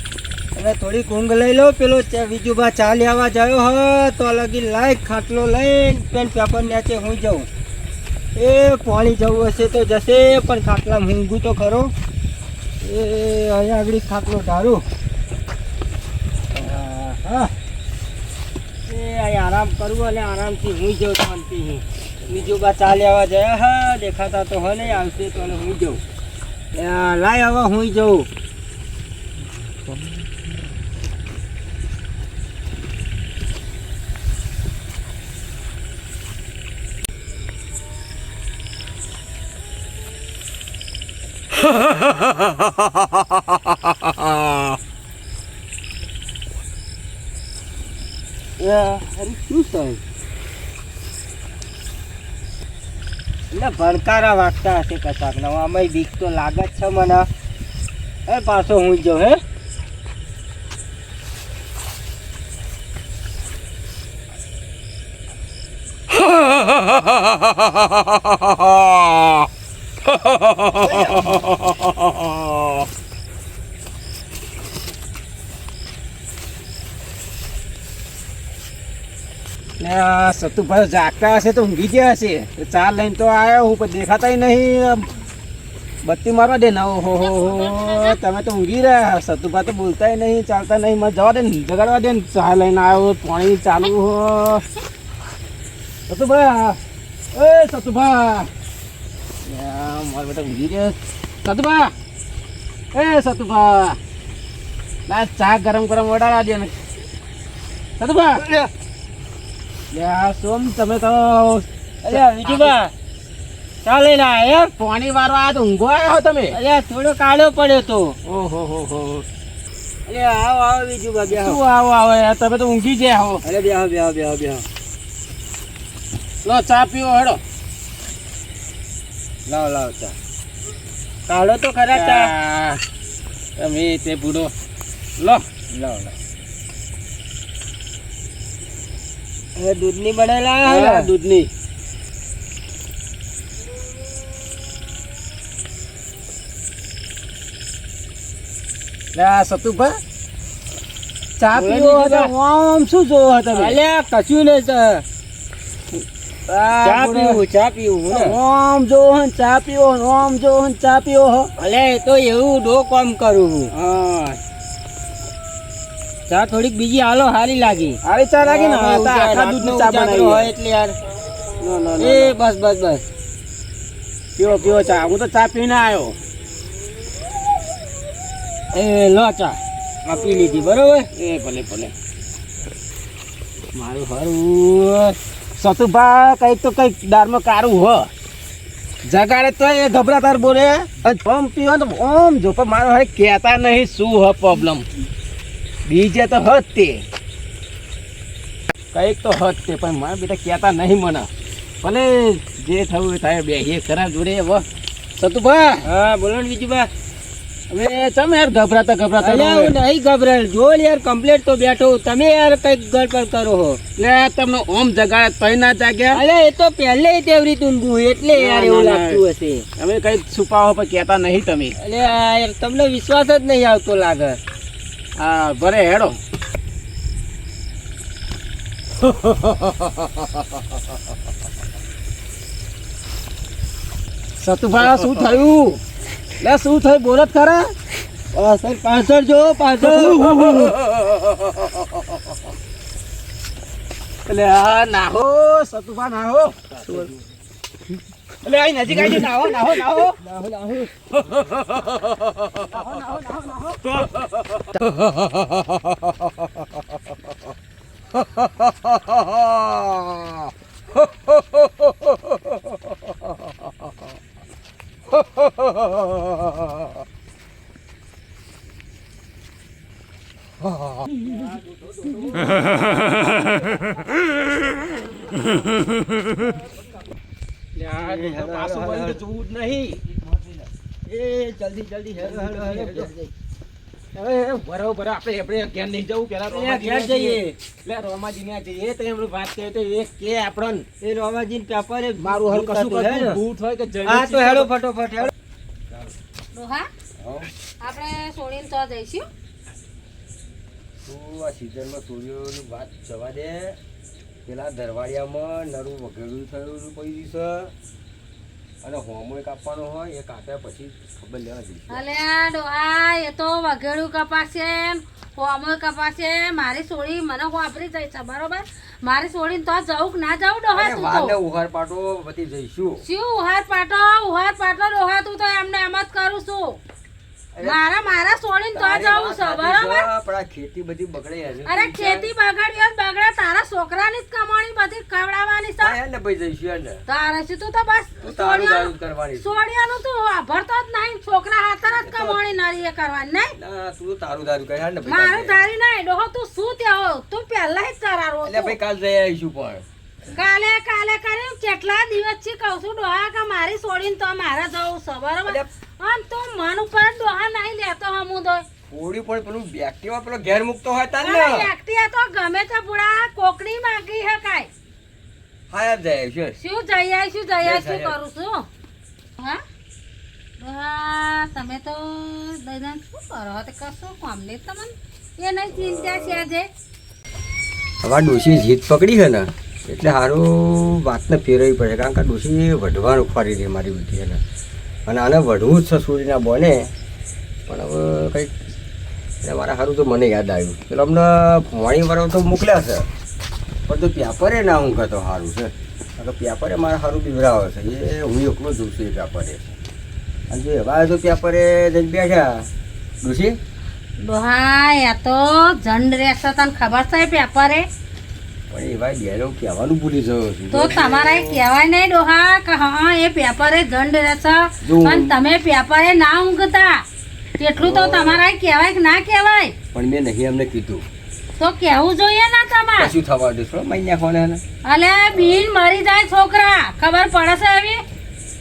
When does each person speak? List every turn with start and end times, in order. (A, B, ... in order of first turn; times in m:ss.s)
0:00.5-0:07.5 A
0:08.3-0:11.9 A
0:12.8-0:14.8 A
0:16.5-0:17.5 A
0:18.9-0:26.0 A
0:26.7-0:28.3 A
0:48.6-0:50.0 A
0:53.5-0:57.3 A
0:58.3-0:59.4 A
1:19.8-1:25.1 B
1:26.0-1:34.6 B
1:27.2-1:28.2 C
1:36.1-1:36.8 B
1:37.3-1:38.5 B
1:39.4-1:41.9 B
1:42.9-1:44.0 B
1:45.1-1:46.7 B
1:48.0-1:48.4 B
1:48.4-1:48.7 A
1:49.9-1:52.8 B
1:52.0-1:52.9 A
1:53.8-1:54.7 A
1:54.8-1:56.6 B
1:56.6-1:58.2 A
1:58.2-1:59.2 B
2:00.1-2:01.6 A
2:01.3-2:03.4 B
2:03.4-2:04.6 A
2:06.4-2:07.4 B
2:09.5-2:10.2 A
2:11.3-2:12.3 A
2:11.9-2:12.8 B
2:13.6-2:14.5 B
2:15.7-2:16.1 A
2:19.6-2:21.1 A
2:20.6-2:21.5 B
2:29.2-2:30.0 B
2:31.4-2:33.8 B
2:31.5-2:32.3 A
2:33.5-2:35.0 A
2:36.5-2:37.4 B
2:36.7-2:38.4 A
2:38.1-2:41.5 B
2:41.6-2:43.7 A
2:43.8-2:44.4 B
2:46.3-2:51.0 A
2:48.0-2:50.5 B
2:51.6-2:52.3 B
2:52.0-2:53.0 A
2:54.4-2:56.2 B
2:58.8-2:59.4 A
2:59.2-2:59.5 B
3:00.1-3:01.1 A
3:01.2-3:01.9 B
3:03.8-3:08.1 B
3:09.1-3:14.8 B
3:15.9-3:17.0 B
3:18.9-3:21.3 B
3:21.8-3:24.6 B
3:25.2-3:25.9 B
3:25.8-3:26.9 A
3:27.7-3:29.7 B
3:29.2-3:33.8 A
3:34.0-3:36.2 B
3:36.1-3:39.7 A
3:38.3-3:39.2 B
3:39.8-3:41.8 B
3:41.8-3:44.4 A
3:45.2-3:46.2 B
3:54.4-3:55.8 B
3:56.4-3:57.7 B
3:58.3-4:00.8 A
3:59.8-4:00.7 B
4:04.3-4:06.7 B
4:06.8-4:07.1 A
4:08.4-4:10.2 B
4:10.1-4:11.1 A
4:12.7-4:14.0 B
4:14.8-4:15.6 D
4:18.4-4:20.3 D
4:32.1-4:32.5 B
4:37.8-4:40.1 B
4:38.0-4:39.2 A
4:41.1-4:43.1 A
4:42.2-4:43.3 B
4:44.1-4:50.8 B
4:46.5-4:47.6 A
4:51.0-4:53.4 A
4:52.2-4:54.7 B
4:54.0-4:55.3 A
4:56.5-4:56.9 C
4:57.2-4:57.5 D
4:57.8-4:59.2 C
5:01.0-5:03.8 D
5:04.4-5:07.7 D
5:08.8-5:12.1 D
5:11.9-5:21.4 C
5:20.7-5:23.0 D
5:23.0-5:26.8 C
5:27.6-5:27.8 D
5:27.6-5:30.1 C
5:28.7-5:32.3 D
5:31.7-5:36.0 C
5:35.8-5:37.0 D
5:37.1-5:43.6 C
5:38.2-5:39.6 D
5:42.0-5:42.4 D
5:43.6-5:45.6 D
5:45.0-5:48.8 C
5:48.4-5:49.8 D
5:50.3-5:58.6 C
5:58.9-6:01.7 D
6:01.2-6:04.7 C
6:05.7-6:06.6 D
6:06.6-6:08.7 C
6:07.6-6:08.1 D
6:10.6-6:16.7 C
6:18.0-6:24.4 D
6:25.1-6:26.9 D
6:27.7-6:28.5 D
6:29.4-6:33.1 D
6:33.9-6:39.7 D
6:40.5-6:42.7 D
6:43.2-6:43.6 D
6:44.2-6:47.8 C
6:48.7-6:51.6 D
6:50.7-6:57.0 C
6:54.8-6:55.4 D
6:57.6-6:59.8 C
6:57.8-6:58.4 D
6:59.9-7:01.0 D
7:01.6-7:03.1 C
7:03.0-7:04.6 D
7:04.8-7:08.0 C